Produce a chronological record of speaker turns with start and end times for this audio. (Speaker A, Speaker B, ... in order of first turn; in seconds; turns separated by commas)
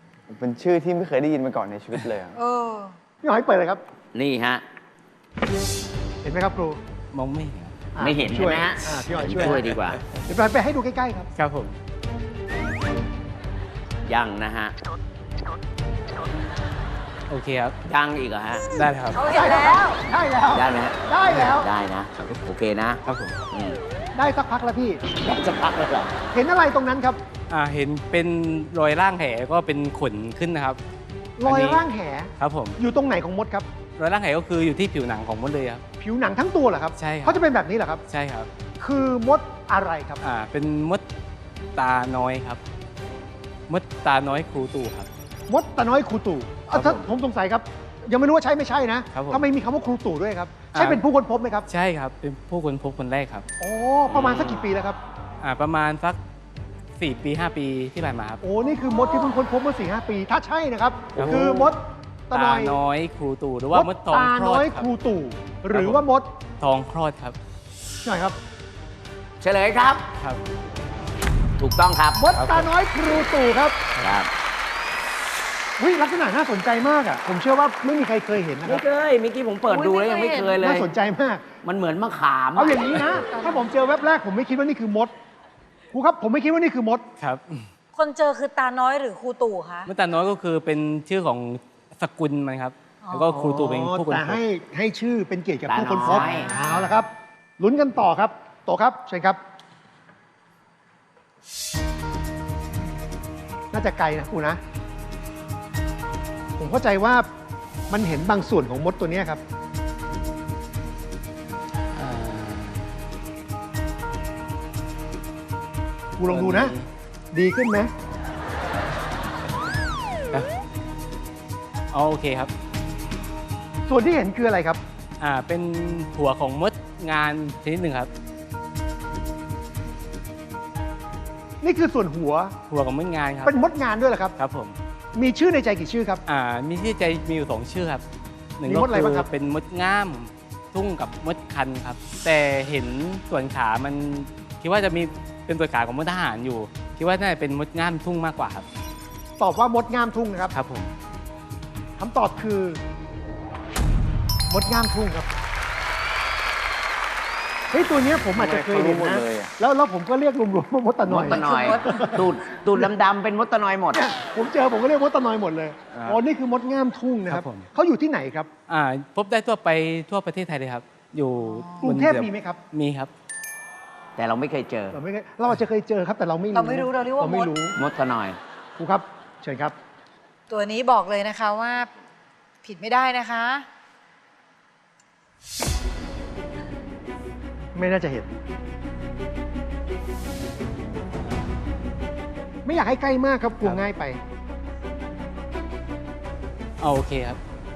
Speaker A: 0.3-2.4, Speaker B: 2.3-3.0, Speaker C: 3.2-3.8, Speaker D: 4.1-4.6, Speaker C: 6.2-6.8, Speaker E: 7.1-7.7, Speaker C: 7.9-11.3, Speaker D: 8.0-10.0, Speaker E: 11.4-11.7, Speaker D: 14.1-14.7, Speaker E: 17.3-17.7, Speaker D: 17.8-18.6, Speaker E: 18.7-19.2, Speaker B: 19.1-20.0, Speaker C: 19.2-21.7, Speaker D: 20.5-23.0, Speaker E: 23.1-23.4, Speaker D: 23.5-23.8, Speaker C: 24.1-25.0, Speaker D: 25.1-26.1, Speaker C: 26.3-27.2, Speaker E: 27.5-30.8, Speaker C: 31.4-33.7, Speaker E: 31.4-31.8, Speaker E: 32.4-32.8, Speaker E: 34.0-35.8, Speaker C: 36.0-38.0, Speaker E: 37.0-37.4, Speaker E: 38.1-38.5, Speaker C: 38.8-40.2, Speaker E: 40.2-41.0, Speaker E: 41.7-42.6, Speaker E: 43.7-45.1, Speaker C: 45.5-51.7, Speaker E: 46.7-47.1, Speaker E: 49.1-49.4, Speaker E: 50.7-51.0, Speaker E: 51.7-53.5, Speaker C: 53.6-55.0, Speaker E: 54.2-54.5, Speaker E: 55.4-56.2, Speaker E: 57.0-58.4, Speaker C: 58.4-62.8, Speaker E: 61.1-61.6, Speaker E: 62.3-64.9, Speaker C: 63.7-66.3, Speaker E: 65.7-66.0, Speaker E: 66.6-67.3, Speaker C: 68.0-68.4, Speaker D: 69.4-70.0, Speaker D: 71.6-72.2, Speaker C: 72.2-73.8, Speaker E: 72.3-72.7, Speaker D: 74.0-74.3, Speaker C: 75.8-78.8, Speaker D: 78.6-80.9, Speaker B: 79.7-80.6, Speaker C: 80.6-81.4, Speaker D: 81.6-83.0, Speaker C: 82.5-85.1, Speaker B: 83.3-83.7, Speaker C: 85.9-87.0, Speaker E: 87.2-87.7, Speaker B: 87.9-89.9, Speaker E: 89.9-94.4, Speaker B: 93.0-93.3, Speaker C: 93.3-99.4, Speaker D: 95.7-96.5, Speaker B: 96.1-96.8, Speaker C: 103.7-104.6, Speaker C: 106.6-107.3, Speaker C: 107.9-109.4, Speaker E: 111.9-112.9, Speaker C: 116.2-116.7, Speaker E: 116.3-116.9, Speaker C: 117.3-117.9, Speaker E: 121.9-122.5, Speaker C: 123.8-124.8, Speaker E: 125.2-128.1, Speaker C: 131.6-132.5, Speaker E: 132.7-133.6, Speaker C: 133.4-134.3, Speaker E: 134.4-134.8, Speaker C: 135.1-136.2, Speaker E: 136.3-138.0, Speaker E: 138.6-148.7, Speaker C: 138.7-139.3, Speaker C: 149.4-150.5, Speaker E: 150.5-150.9, Speaker C: 152.0-152.8, Speaker C: 154.5-155.3, Speaker C: 157.7-162.9, Speaker A: 158.3-159.5, Speaker D: 161.1-164.0, Speaker B: 161.2-162.3, Speaker C: 163.9-168.5, Speaker E: 167.3-167.7, Speaker E: 168.7-173.1, Speaker B: 171.4-171.9, Speaker C: 171.8-172.6, Speaker D: 174.2-175.0, Speaker C: 174.9-177.8, Speaker B: 176.5-177.5, Speaker D: 177.8-178.4, Speaker C: 178.8-179.7, Speaker B: 180.5-181.9, Speaker B: 182.6-183.7, Speaker C: 187.7-188.3, Speaker C: 192.6-194.2, Speaker E: 196.8-197.4